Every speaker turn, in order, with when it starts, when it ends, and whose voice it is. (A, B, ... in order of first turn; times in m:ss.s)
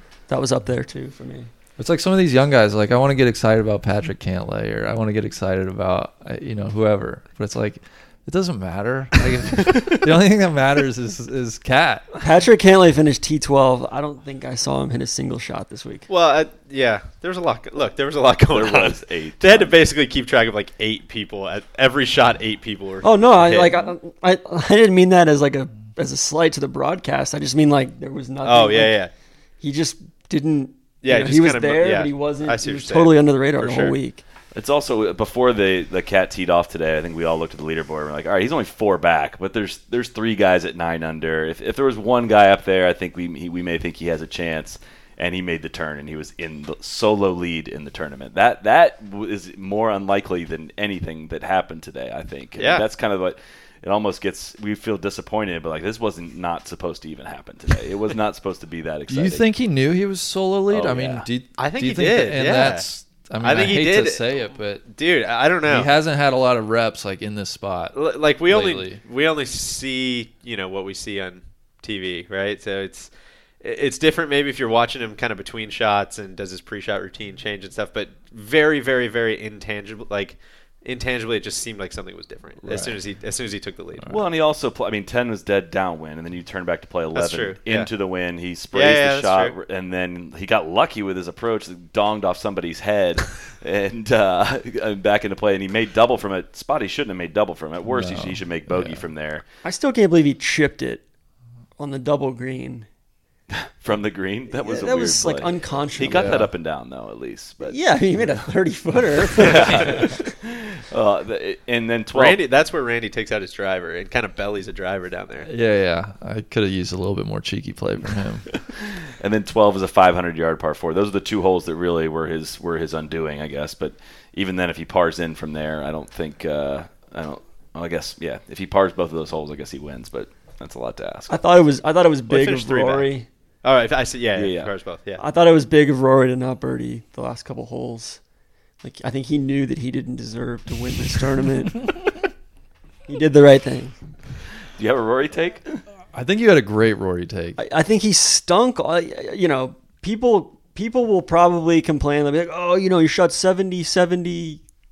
0:00.3-0:01.5 A
0:01.8-0:12.2 B
0:12.2-0:16.1 A
0:16.1-0:23.9 C
0:18.5-0:19.8 D
0:23.0-0:29.0 A
0:28.4-0:29.1 C
0:29.6-0:34.2 A
0:31.0-0:34.0 C
0:34.5-0:59.4 D
0:52.6-0:52.8 C
0:59.1-1:04.8 B
1:00.7-1:01.3 D
1:01.6-1:02.9 C
1:03.4-1:05.9 C
1:05.7-1:08.0 B
1:07.9-1:13.1 C
1:08.5-1:09.0 B
1:13.6-1:24.1 C
1:22.6-1:23.0 D
1:24.1-1:39.4 D
1:27.1-1:27.9 C
1:28.7-1:29.6 C
1:37.9-1:39.0 B
1:39.6-1:41.0 A
1:41.8-1:42.9 A
1:43.5-1:47.8 D
1:44.5-1:46.5 A
1:46.0-1:46.5 B
1:47.6-1:50.2 A
1:49.4-1:52.4 D
1:52.1-1:55.5 C
1:55.5-1:58.5 B
1:58.6-2:11.4 D
2:11.3-2:13.3 A
2:12.3-2:13.1 C
2:13.6-2:15.2 C
2:14.4-2:14.7 D
2:15.2-2:18.2 A
2:18.8-2:22.1 A
2:23.1-2:24.0 A
2:24.8-2:25.8 D
2:26.1-2:27.6 B
2:27.6-2:34.6 A